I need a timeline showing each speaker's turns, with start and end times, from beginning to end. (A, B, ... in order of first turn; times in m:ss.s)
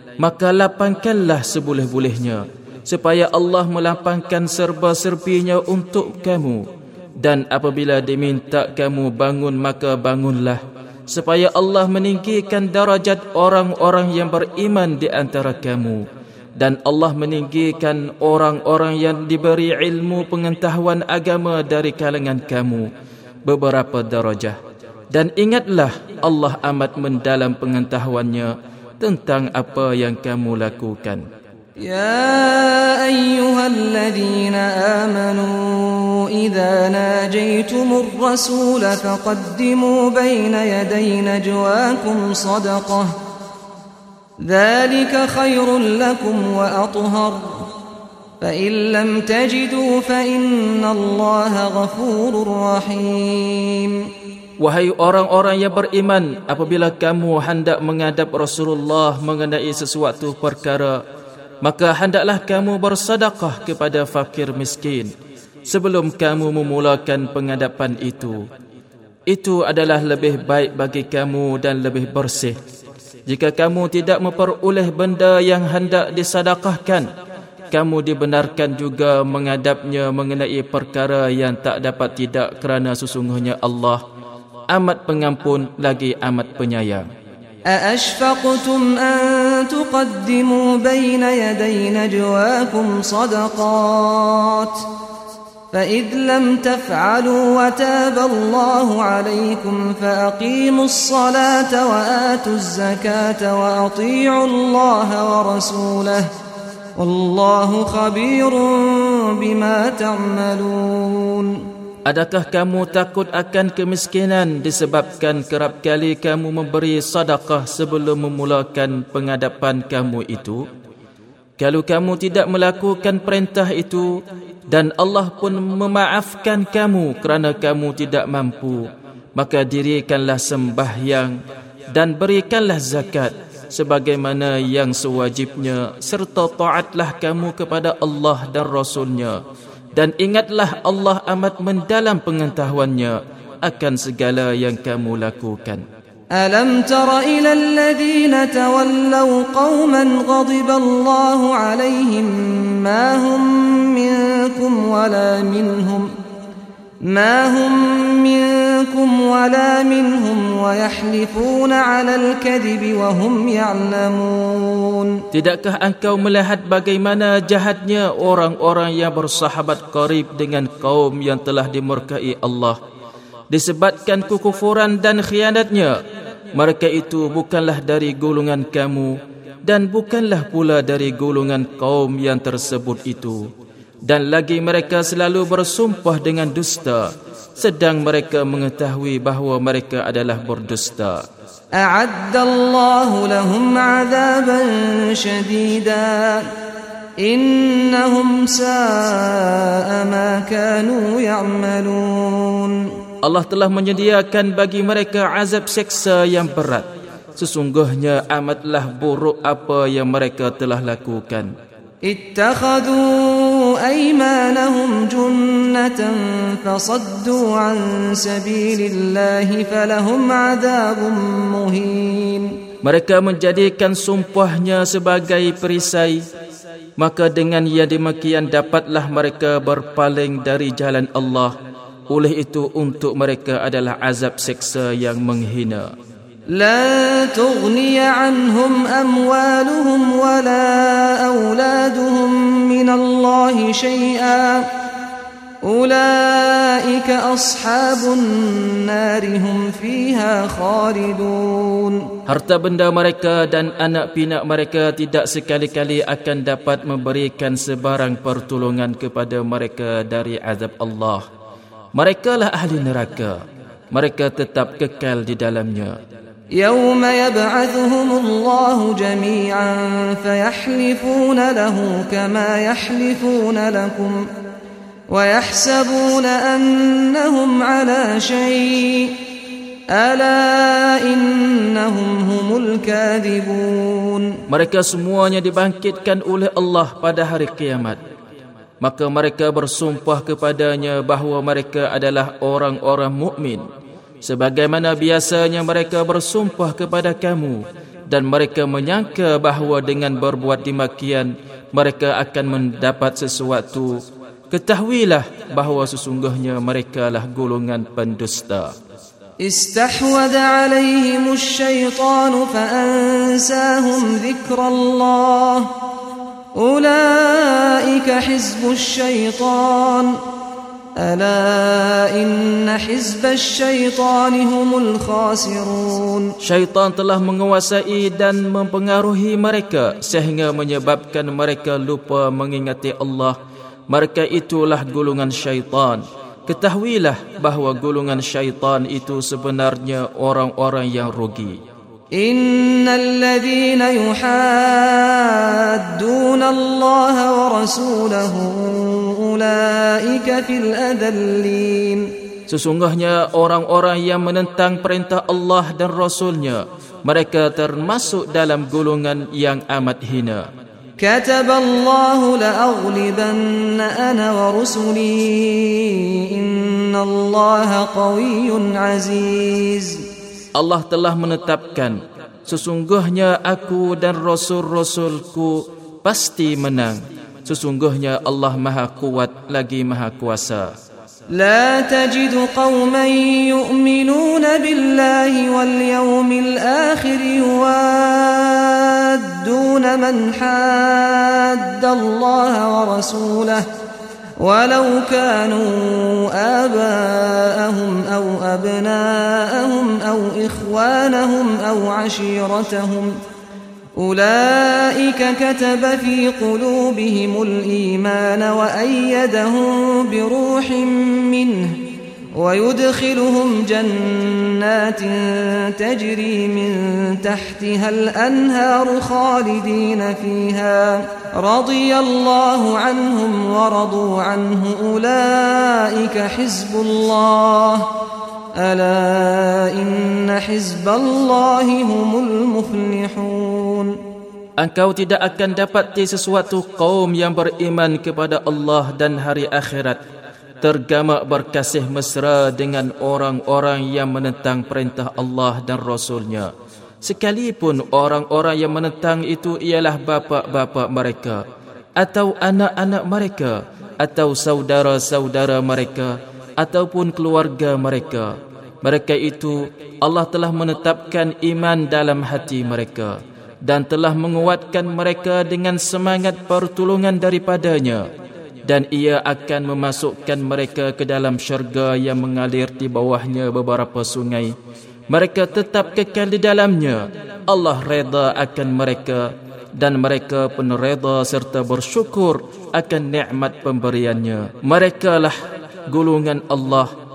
0:00.2-0:06.7 A
0:07.2-0:16.0 A
0:16.6-0:22.9 A
0:23.5-0:24.6 A
0:25.1-0:31.3 A
0:31.8-0:43.1 B
0:44.4-0:47.7 B
0:48.4-0:54.0 B
0:54.6-1:01.0 A
1:01.6-1:05.1 A
1:05.7-1:08.4 A
1:09.3-1:12.6 A
1:13.3-1:17.1 A
1:17.7-1:24.0 A
1:24.7-1:27.1 A
1:27.7-1:34.9 B
1:35.7-1:46.3 B
1:47.0-1:51.6 B
1:52.1-2:00.6 A
2:01.6-2:04.1 A
2:04.7-2:11.4 A
2:11.9-2:19.4 A
2:20.0-2:25.8 A
2:26.4-2:36.1 B
2:37.0-2:45.2 B
2:45.3-2:52.8 A
2:53.5-2:56.0 A
2:56.5-3:03.5 A
3:04.1-3:07.1 A
3:07.6-3:11.2 A
3:11.8-3:16.4 B
3:17.2-3:22.8 B
3:23.2-3:31.5 A
3:32.0-3:42.6 B
3:42.8-3:46.2 A
3:47.0-3:51.5 A
3:52.1-3:55.9 A
3:56.5-4:04.6 B
4:05.6-4:12.0 B
4:12.3-4:21.2 A
4:22.0-4:23.4 A
4:23.9-4:26.0 A
4:26.6-4:34.2 B
4:35.1-4:39.2 B
4:39.9-4:44.4 B
4:44.5-4:48.0 A
4:48.8-4:53.7 A
4:54.2-5:04.0 A
5:04.5-5:08.7 A
5:09.4-5:15.7 B
5:16.6-5:20.1 B
5:21.0-5:26.3 B
5:26.4-5:33.4 A
5:33.9-5:41.6 A
5:42.1-5:52.1 B
5:52.5-6:00.5 A
6:01.0-6:10.0 B
6:10.6-6:20.7 A
6:21.3-6:33.7 B
6:34.4-6:43.1 B
6:44.0-6:51.8 B
6:52.3-7:07.9 B
7:08.6-7:14.0 B
7:14.6-7:20.0 A
7:20.6-7:26.5 A
7:27.0-7:31.4 A
7:32.0-7:48.1 A
7:48.7-7:54.5 A
7:55.1-8:05.4 A
8:05.9-8:06.9 A